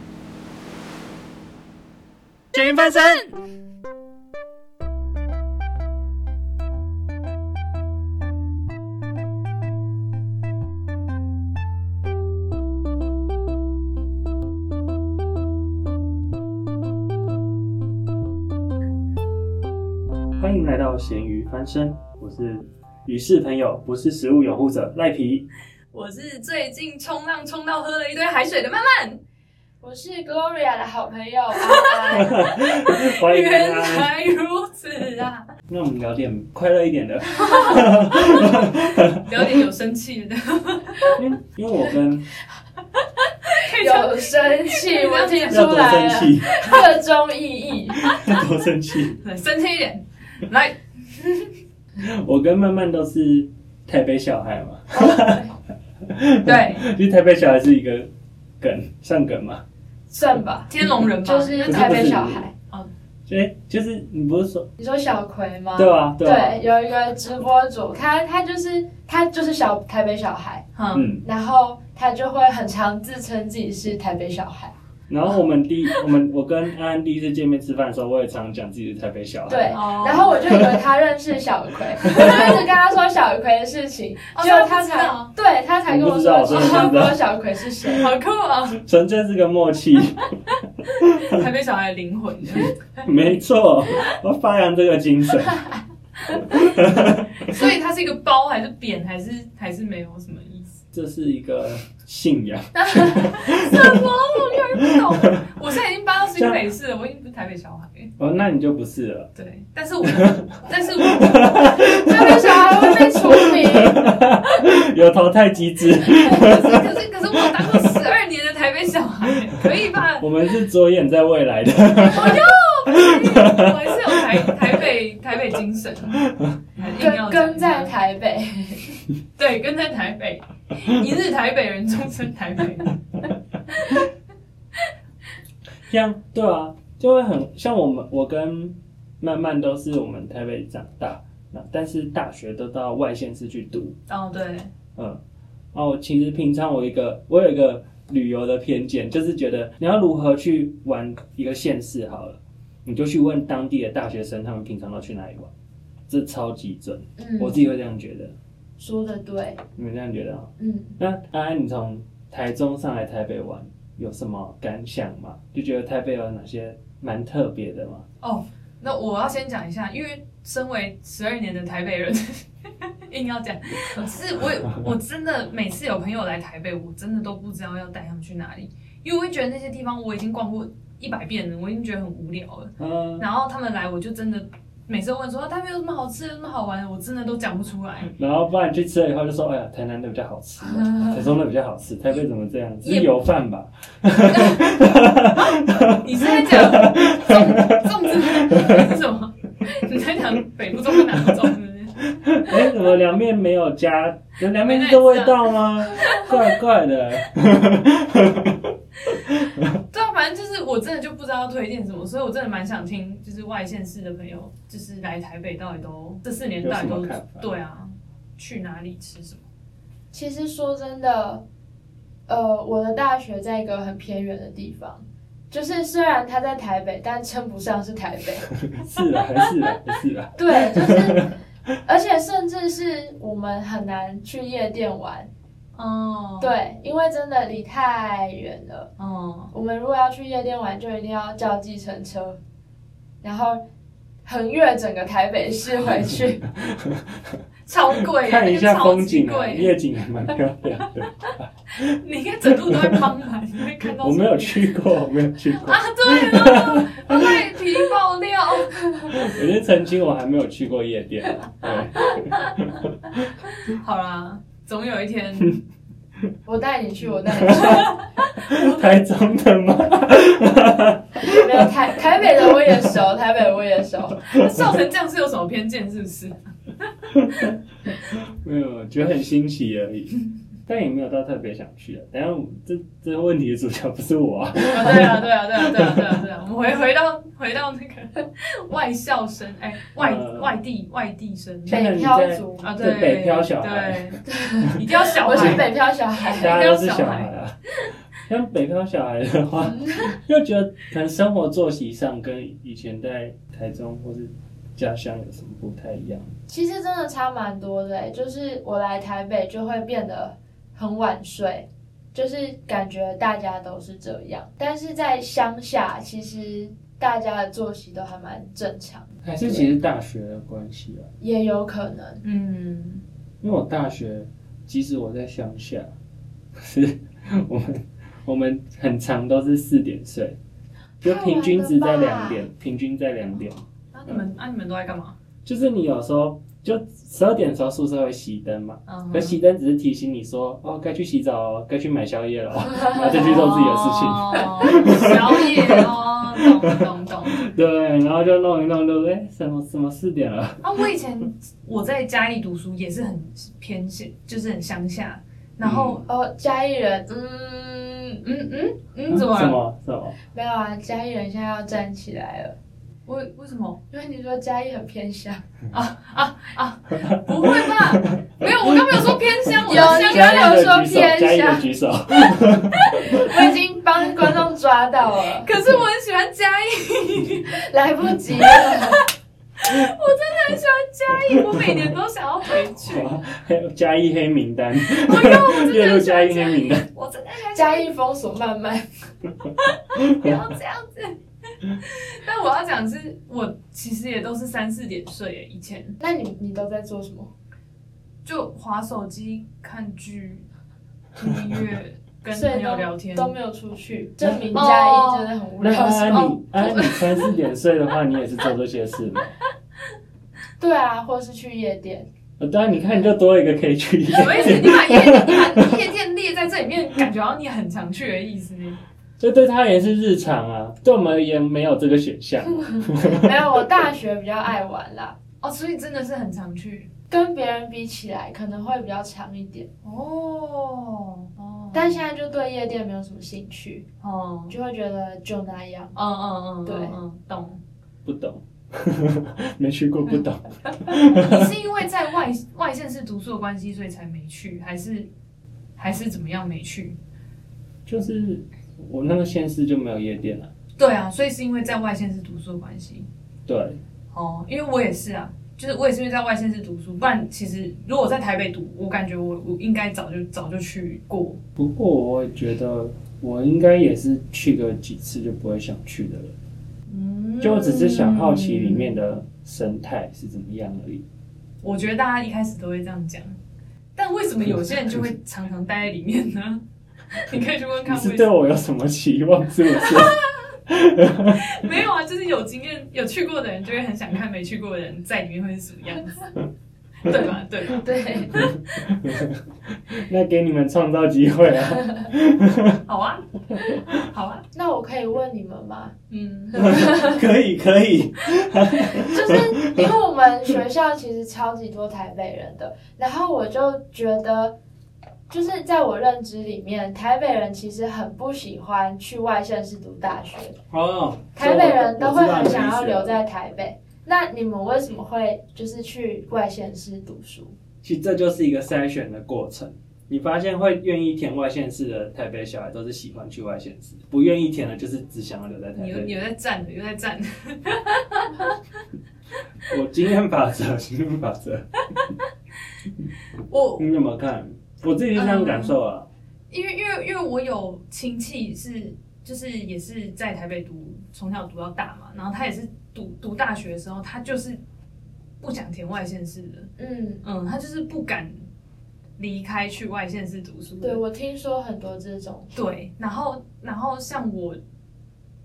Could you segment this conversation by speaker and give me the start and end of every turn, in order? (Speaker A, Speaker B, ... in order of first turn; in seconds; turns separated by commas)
Speaker A: 2.5-3.2, Speaker B: 2.5-3.3, Speaker A: 20.4-25.5, Speaker B: 25.9-29.2, Speaker C: 29.8-32.5, Speaker A: 32.2-34.1, Speaker B: 32.5-35.5, Speaker A: 35.7-39.6, Speaker B: 37.3-41.2, Speaker A: 41.1-42.3, Speaker B: 43.5-45.8, Speaker C: 43.7-48.1, Speaker A: 45.5-46.8, Speaker A: 48.0-49.2, Speaker B: 49.2-51.5, Speaker A: 52.0-58.1, Speaker C: 54.9-55.5, Speaker B: 56.4-56.8, Speaker A: 58.6-59.6, Speaker C: 60.1-62.5, Speaker B: 60.7-62.1, Speaker A: 61.6-62.5, Speaker A: 63.3-64.7, Speaker C: 64.8-70.7, Speaker A: 65.7-66.6, Speaker B: 70.8-71.1, Speaker A: 70.9-71.2, Speaker C: 71.2-74.7, Speaker A: 75.1-80.8, Speaker C: 79.5-88.0, Speaker B: 79.7-80.4, Speaker A: 82.0-82.6, Speaker B: 84.3-85.3, Speaker A: 85.9-87.2, Speaker B: 86.5-87.1, Speaker A: 87.8-88.1, Speaker B: 88.0-88.8, Speaker A: 88.7-90.3, Speaker A: 91.0-91.4, Speaker B: 91.0-93.1, Speaker A: 92.5-95.6, Speaker B: 96.3-96.7, Speaker A: 96.5-97.6, Speaker B: 97.4-100.8, Speaker A: 100.9-105.5, Speaker C: 102.7-103.2, Speaker B: 103.1-108.1, Speaker A: 106.3-106.6, Speaker A: 108.2-109.3, Speaker B: 109.3-112.0, Speaker A: 110.0-118.0, Speaker C: 112.0-114.0, Speaker B: 116.0-120.3, Speaker A: 120.2-124.8, Speaker B: 122.0-127.9, Speaker A: 126.2-126.5, Speaker C: 127.0-128.9, Speaker B: 129.3-133.0, Speaker B: 133.7-134.1, Speaker A: 135.9-143.9, Speaker B: 144.1-144.7, Speaker A: 145.7-155.5, Speaker A: 156.1-158.3, Speaker C: 157.2-157.6, Speaker C: 158.8-159.6, Speaker A: 159.8-168.0, Speaker C: 160.6-160.9, Speaker B: 168.2-188.1, Speaker A: 182.8-183.2, Speaker A: 188.1-198.9, Speaker B: 192.8-193.1, Speaker B: 194.3-194.7, Speaker B: 196.0-202.7, Speaker A: 200.9-201.3, Speaker A: 202.2-208.7, Speaker B: 204.6-205.4, Speaker B: 205.9-206.4, Speaker A: 209.2-209.8, Speaker B: 209.9-219.4, Speaker A: 216.6-217.5, Speaker C: 220.1-221.4, Speaker C: 222.3-228.5, Speaker A: 228.7-231.3, Speaker C: 230.3-231.3, Speaker C: 231.8-235.3, Speaker B: 235.8-236.5, Speaker C: 236.4-238.9, Speaker B: 239.0-239.5, Speaker C: 239.5-242.4, Speaker C: 243.2-243.6, Speaker C: 244.2-246.4, Speaker A: 246.6-247.4, Speaker B: 247.7-249.7, Speaker A: 248.1-253.1, Speaker B: 251.2-254.6, Speaker A: 253.9-257.6, Speaker B: 255.5-259.2, Speaker A: 259.1-263.3, Speaker B: 263.6-265.6, Speaker C: 266.4-268.0, Speaker A: 267.3-272.9, Speaker B: 267.5-268.9, Speaker C: 271.2-274.2, Speaker B: 274.2-276.9, Speaker A: 274.3-274.7, Speaker A: 277.1-277.5, Speaker A: 278.1-286.2, Speaker B: 284.7-291.8, Speaker A: 290.0-290.6, Speaker A: 291.6-295.7, Speaker C: 291.7-292.6, Speaker B: 292.6-295.7, Speaker C: 294.3-296.5, Speaker B: 296.2-297.3, Speaker A: 296.3-297.6, Speaker A: 298.2-306.3, Speaker C: 299.8-300.1, Speaker C: 306.5-319.6, Speaker A: 319.2-321.1, Speaker C: 321.2-322.2, Speaker B: 322.2-323.0, Speaker A: 323.4-325.9, Speaker A: 326.5-330.4, Speaker A: 331.0-334.2, Speaker C: 331.0-332.4, Speaker B: 333.9-335.1, Speaker A: 335.4-350.9, Speaker B: 338.9-339.4, Speaker C: 342.8-343.2, Speaker B: 343.0-347.5, Speaker B: 350.6-356.0, Speaker A: 355.6-356.0, Speaker C: 356.1-358.2, Speaker B: 358.2-359.6, Speaker A: 359.1-360.1, Speaker C: 360.3-362.5, Speaker B: 363.1-363.8, Speaker C: 363.9-365.4, Speaker B: 365.7-370.6, Speaker A: 367.0-373.3, Speaker C: 369.7-371.6, Speaker C: 373.1-375.5, Speaker B: 375.4-377.6, Speaker C: 377.5-379.0, Speaker B: 378.4-379.0, Speaker B: 379.6-383.1, Speaker A: 381.1-381.9, Speaker A: 382.8-386.9, Speaker B: 384.8-387.9, Speaker C: 387.5-388.9, Speaker B: 389.6-391.2, Speaker A: 389.9-390.4, Speaker B: 391.8-396.0, Speaker C: 396.0-397.3, Speaker B: 398.2-400.4, Speaker B: 401.1-403.3, Speaker C: 402.3-406.3, Speaker B: 404.5-405.3, Speaker A: 405.6-409.3, Speaker B: 406.1-407.3, Speaker C: 410.6-412.1, Speaker A: 412.4-415.8, Speaker B: 414.1-418.8, Speaker A: 419.2-423.3, Speaker C: 423.0-425.2, Speaker B: 425.4-426.9, Speaker C: 427.1-429.7, Speaker B: 429.8-432.0, Speaker C: 431.7-433.8, Speaker B: 434.0-434.5, Speaker C: 434.5-435.9, Speaker B: 435.9-437.6, Speaker C: 436.6-437.0, Speaker A: 438.0-441.5, Speaker B: 440.9-445.1, Speaker B: 445.8-446.9, Speaker A: 447.9-450.5, Speaker B: 450.8-453.1, Speaker A: 453.5-453.8, Speaker B: 454.1-461.4, Speaker A: 461.6-466.3, Speaker B: 466.9-468.9, Speaker A: 467.4-471.0, Speaker B: 471.6-473.4, Speaker B: 473.9-478.3, Speaker A: 477.8-481.6, Speaker B: 479.7-480.5, Speaker B: 481.3-486.3, Speaker B: 487.0-488.5, Speaker C: 487.8-488.4, Speaker A: 488.3-492.8, Speaker B: 492.9-494.4, Speaker C: 494.5-495.9, Speaker B: 496.1-496.8, Speaker C: 496.5-497.1, Speaker A: 496.5-499.9, Speaker C: 498.9-504.5, Speaker C: 505.3-510.6, Speaker A: 510.7-513.2, Speaker C: 511.3-517.6, Speaker A: 517.8-526.1, Speaker B: 525.8-528.6, Speaker A: 529.7-531.7, Speaker B: 533.5-533.9, Speaker A: 533.8-536.1, Speaker B: 535.1-535.8, Speaker B: 536.5-544.6, Speaker B: 545.4-546.7, Speaker C: 546.8-547.2, Speaker B: 547.2-548.4, Speaker B: 549.2-551.0, Speaker C: 550.8-552.5, Speaker B: 552.5-554.6